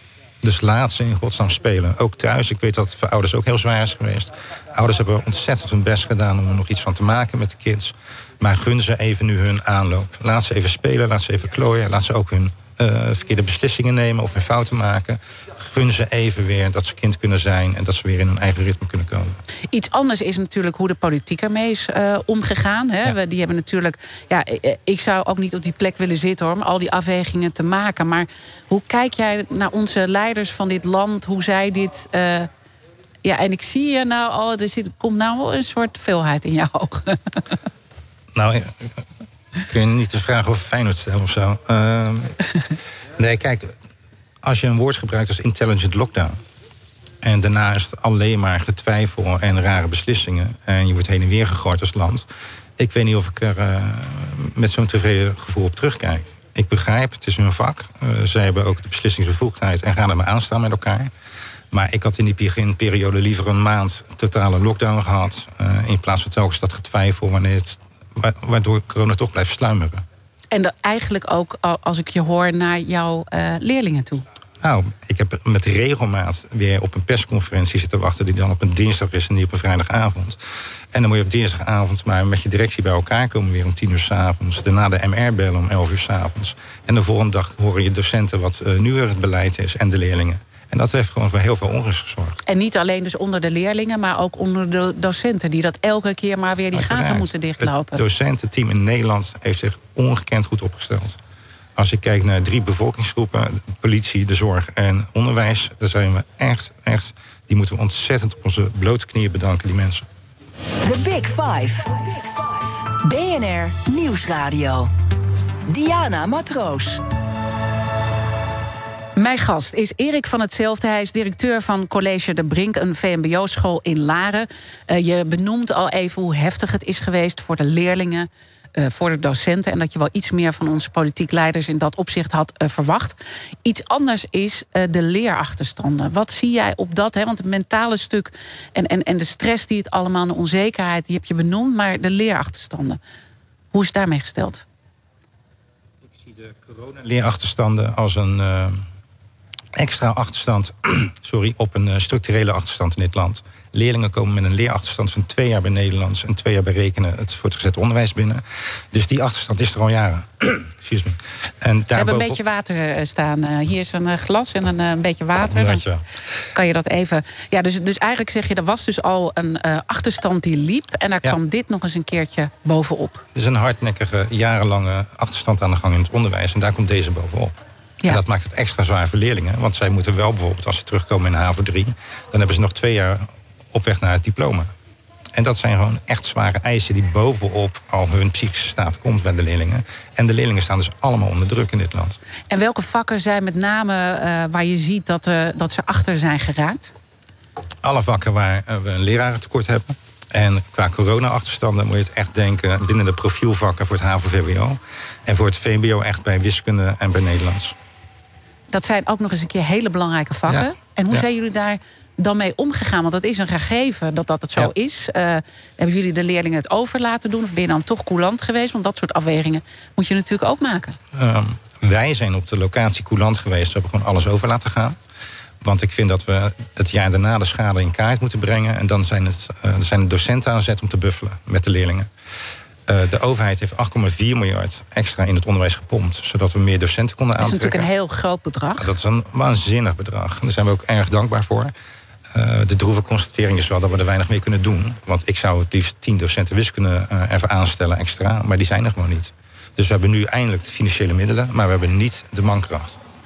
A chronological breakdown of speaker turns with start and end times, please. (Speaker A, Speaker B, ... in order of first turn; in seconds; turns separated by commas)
Speaker A: 0.4-19.4, Speaker B: 19.7-32.5, Speaker B: 33.2-37.4, Speaker A: 38.3-39.0, Speaker A: 39.7-42.4, Speaker A: 43.2-43.8, Speaker A: 44.4-46.4, Speaker A: 47.2-52.3, Speaker A: 52.8-61.1, Speaker A: 61.7-70.0, Speaker B: 70.5-74.2, Speaker A: 74.6-80.4, Speaker A: 80.9-92.4, Speaker B: 92.5-98.0, Speaker A: 96.7-101.2, Speaker A: 101.8-110.0, Speaker C: 110.8-114.9, Speaker C: 115.7-117.0, Speaker B: 119.2-143.0, Speaker B: 143.7-144.6, Speaker A: 146.1-148.8, Speaker A: 149.7-162.4, Speaker B: 161.9-165.8, Speaker A: 165.5-166.0, Speaker B: 166.5-173.2, Speaker A: 173.3-184.7, Speaker A: 185.3-192.2, Speaker B: 192.5-196.9, Speaker A: 197.8-207.8, Speaker B: 208.7-221.0, Speaker A: 210.5-211.2, Speaker A: 221.1-225.0, Speaker A: 225.6-232.1, Speaker A: 232.9-237.9, Speaker B: 237.4-238.9, Speaker A: 238.8-241.7, Speaker A: 242.3-253.0